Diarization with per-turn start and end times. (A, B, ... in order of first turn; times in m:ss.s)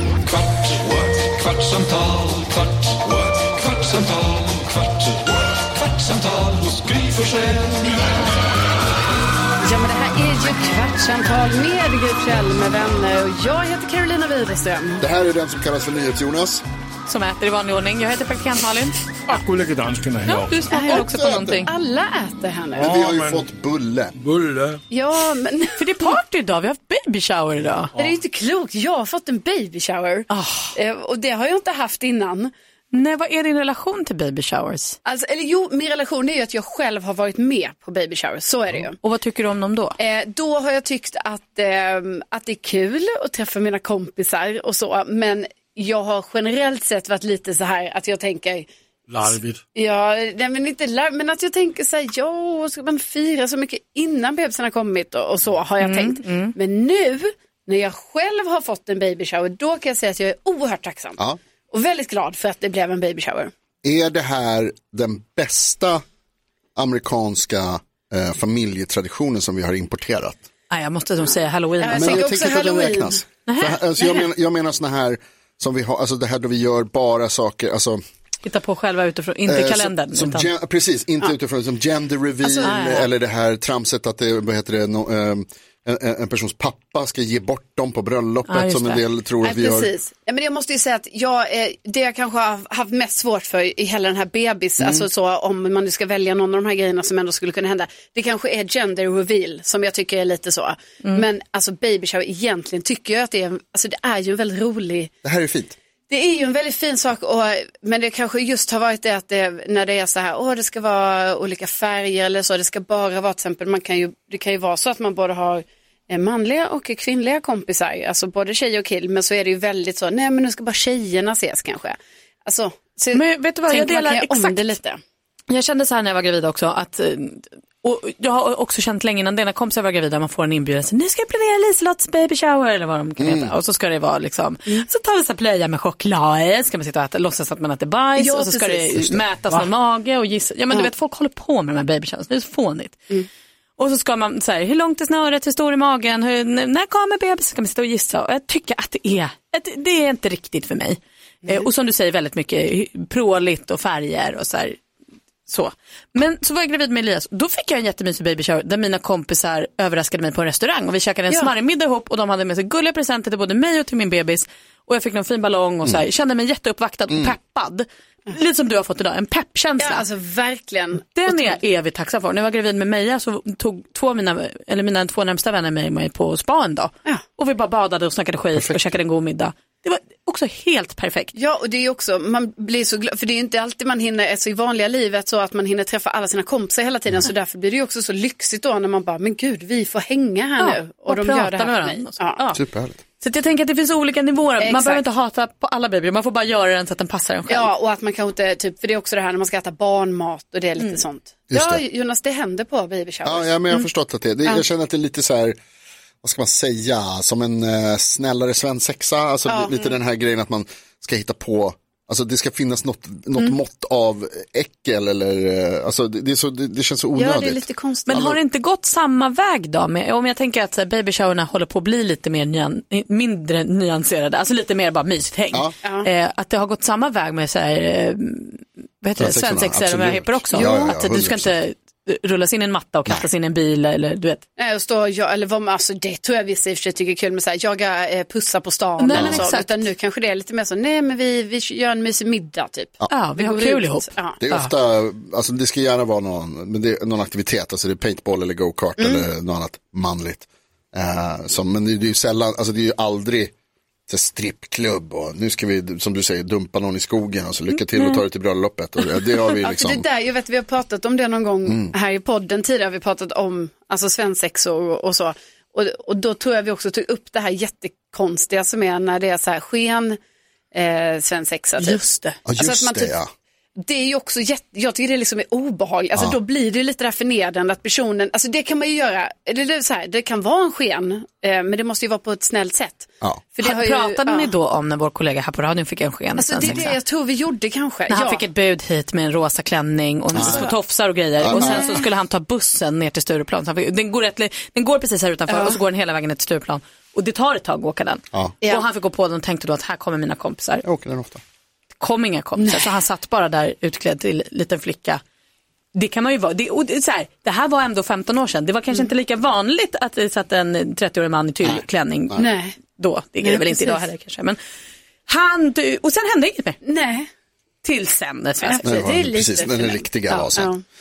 0:00.5-0:02.6 A
0:03.4-0:05.1 A
0:05.9-0:07.9 A
0:09.6-0:15.0 B
0:15.0-0:16.6 C
0:17.1-0:19.1 D
0:19.4-0:20.6 E
0:20.3-0:21.7 D
0:20.7-0:22.9 B
0:20.9-0:21.7 C
0:22.8-0:24.1 C
0:22.9-0:23.4 E
0:24.2-0:24.8 E
0:24.9-0:26.2 B
0:25.8-0:27.9 D
0:28.0-0:32.5 B
0:30.3-0:30.7 D
0:32.9-0:35.0 D
0:35.0-0:39.0 B
0:39.0-0:40.0 D
0:40.0-0:48.7 B
0:49.1-0:49.6 E
0:49.8-1:01.2 B
0:55.8-0:56.5 D
1:01.7-1:03.5 B
1:03.8-1:06.0 C
1:06.8-1:10.4 C
1:10.7-1:12.4 D
1:11.8-1:13.2 B
1:11.9-1:18.0 C
1:13.5-1:13.8 D
1:18.4-1:20.5 D
1:19.5-1:29.9 C
1:22.4-1:23.0 B
1:22.6-1:23.1 D
1:28.5-1:29.0 D
1:29.4-1:45.1 B
1:34.8-1:35.0 C
1:45.2-1:45.8 C
1:46.1-2:05.0 B
2:03.1-2:04.7 D
2:05.5-2:23.0 D
2:13.2-2:13.5 C
2:18.2-2:19.2 B
2:23.8-2:34.8 D
2:35.5-2:50.0 D
2:47.1-2:47.4 C
2:49.8-2:51.6 B
2:51.2-3:01.3 D
2:58.6-2:58.8 C
3:01.4-3:12.4 B
3:10.6-3:12.6 D
3:12.6-3:13.0 C
3:13.2-3:17.7 D
3:14.6-3:15.0 B
3:17.5-3:23.9 B
3:21.5-3:21.8 C
3:23.2-3:25.6 C
3:26.2-3:38.4 C
3:29.5-3:30.0 B
3:37.2-3:38.1 B
3:38.1-3:54.4 D
3:45.8-3:46.1 B
3:49.2-3:51.6 C
3:54.6-4:04.4 B
3:59.0-3:59.8 D
3:59.1-3:59.5 C
4:03.1-4:04.7 D
4:04.4-4:13.5 C
4:09.0-4:09.2 B
4:14.1-4:20.1 C
4:19.5-4:30.2 B
4:21.7-4:21.9 C
4:30.7-4:32.0 B
4:31.8-4:32.4 D
4:32.5-4:33.3 C
4:32.6-4:33.2 B
4:33.8-4:44.5 B
4:43.6-4:47.0 D
4:46.4-4:48.5 B
4:48.1-5:00.8 D
4:50.3-4:50.7 B
4:50.4-4:50.7 C
4:51.4-4:52.0 C
4:51.5-4:52.0 B
4:55.5-4:55.8 B
4:58.6-4:58.9 B
5:00.8-5:01.4 C
5:01.9-5:05.2 D
5:02.6-5:03.0 B
5:05.9-5:14.6 D
5:11.6-5:12.5 C
5:12.4-5:12.8 B
5:13.4-5:14.1 B
5:15.3-5:16.8 D
5:16.8-5:17.3 B
5:17.8-5:18.8 D
5:18.6-5:20.8 B
5:18.8-5:20.7 C